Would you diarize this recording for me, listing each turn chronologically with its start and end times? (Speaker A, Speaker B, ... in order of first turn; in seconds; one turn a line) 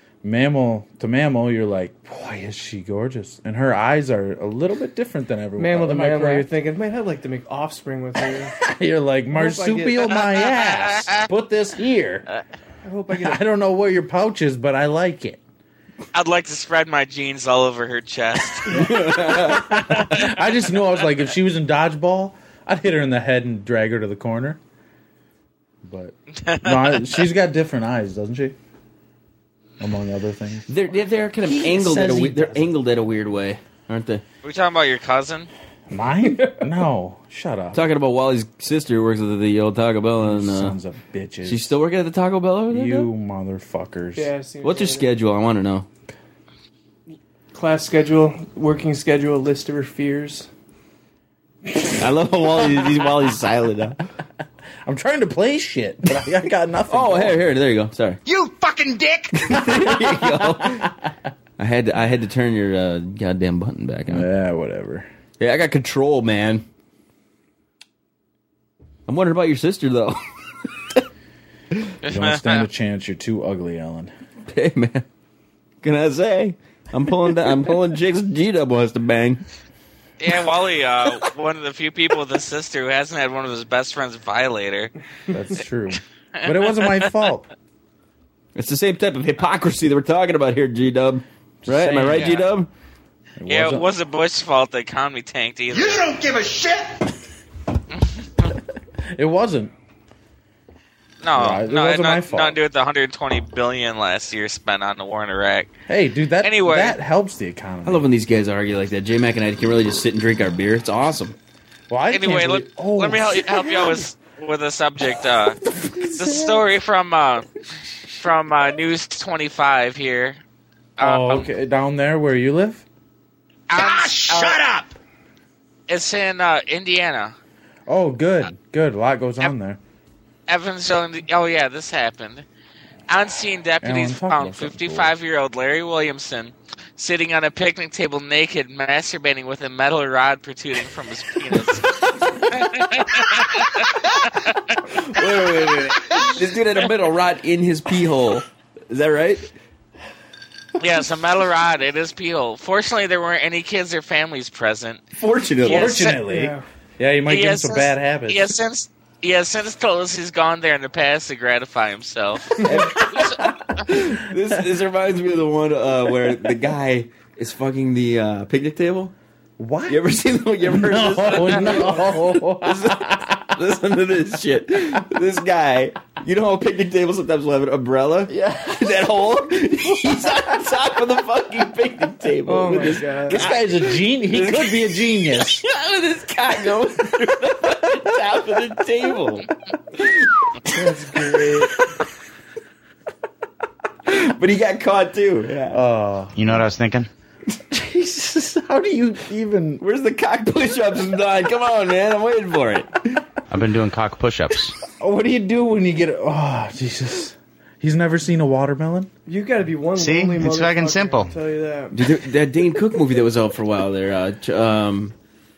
Speaker A: 0.2-6.5
Speaker B: 5.6-8.6
Speaker A: 8.6-12.3
Speaker B: 9.3-10.1
Speaker C: 10.2-11.3
Speaker B: 12.8-13.4
Speaker A: 13.1-15.4
Speaker C: 16.1-20.4
Speaker D: 18.7-19.8
Speaker A: 18.7-24.6
Speaker A: 25.8-28.6
Speaker C: 26.4-27.1
Speaker A: 29.8-30.7
Speaker D: 30.7-34.2
Speaker A: 31.4-32.8
Speaker C: 34.4-35.5
Speaker A: 35.9-37.8
Speaker B: 36.3-36.6
Speaker D: 37.7-40.8
Speaker A: 40.2-41.7
Speaker D: 41.4-43.1
Speaker A: 42.7-44.3
Speaker B: 44.2-45.1
Speaker D: 44.6-45.9
Speaker B: 47.5-50.5
Speaker D: 52.0-54.0
Speaker A: 54.9-57.4
Speaker D: 56.9-58.2
Speaker E: 58.3-59.8
Speaker D: 59.3-60.9
Speaker A: 59.5-61.1
Speaker D: 61.6-64.3
Speaker A: 64.1-65.1
Speaker D: 65.4-66.7
Speaker D: 69.1-71.0
Speaker C: 72.0-72.7
Speaker A: 72.0-74.1
Speaker D: 74.5-75.1
Speaker D: 75.8-79.4
Speaker C: 80.2-84.9
Speaker A: 85.3-87.5
Speaker C: 86.4-87.0
Speaker D: 88.5-92.7
Speaker A: 91.6-92.5
Speaker C: 92.2-92.4
Speaker A: 93.4-93.9
Speaker C: 93.5-96.1
Speaker E: 95.7-97.1
Speaker A: 99.1-99.7
Speaker C: 101.2-105.7
Speaker A: 101.3-102.6
Speaker A: 105.9-108.1
Speaker C: 106.4-107.0
Speaker D: 107.8-111.4
Speaker A: 111.9-114.1
Speaker C: 112.1-115.6
Speaker A: 115.8-116.7
Speaker C: 116.2-117.5
Speaker C: 118.2-120.4
Speaker C: 121.0-121.5
Speaker A: 121.0-122.8
Speaker C: 123.7-124.6
Speaker E: 123.7-125.0
Speaker C: 125.9-127.3
Speaker A: 127.9-129.8
Speaker C: 130.5-132.4
Speaker C: 133.1-144.8
Speaker A: 133.8-135.1
Speaker D: 144.9-149.5
Speaker C: 150.8-155.0
Speaker D: 155.2-156.0
Speaker C: 155.6-156.2
Speaker A: 155.6-158.6
Speaker B: 156.2-156.6
Speaker C: 157.3-163.5
Speaker D: 162.5-169.1
Speaker A: 169.6-170.1
Speaker D: 169.9-191.9
Speaker A: 170.6-173.5
Speaker A: 178.3-178.6
Speaker B: 182.5-183.4
Speaker A: 183.3-185.6
Speaker B: 190.7-191.8
Speaker D: 194.1-195.8
Speaker A: 195.7-196.7
Speaker F: 196.3-197.1
Speaker D: 197.6-198.6
Speaker A: 198.6-199.8
Speaker D: 199.8-203.2
Speaker F: 203.5-204.8
Speaker A: 205.0-209.1
Speaker B: 209.3-212.0
Speaker F: 209.9-211.3
Speaker D: 211.9-215.2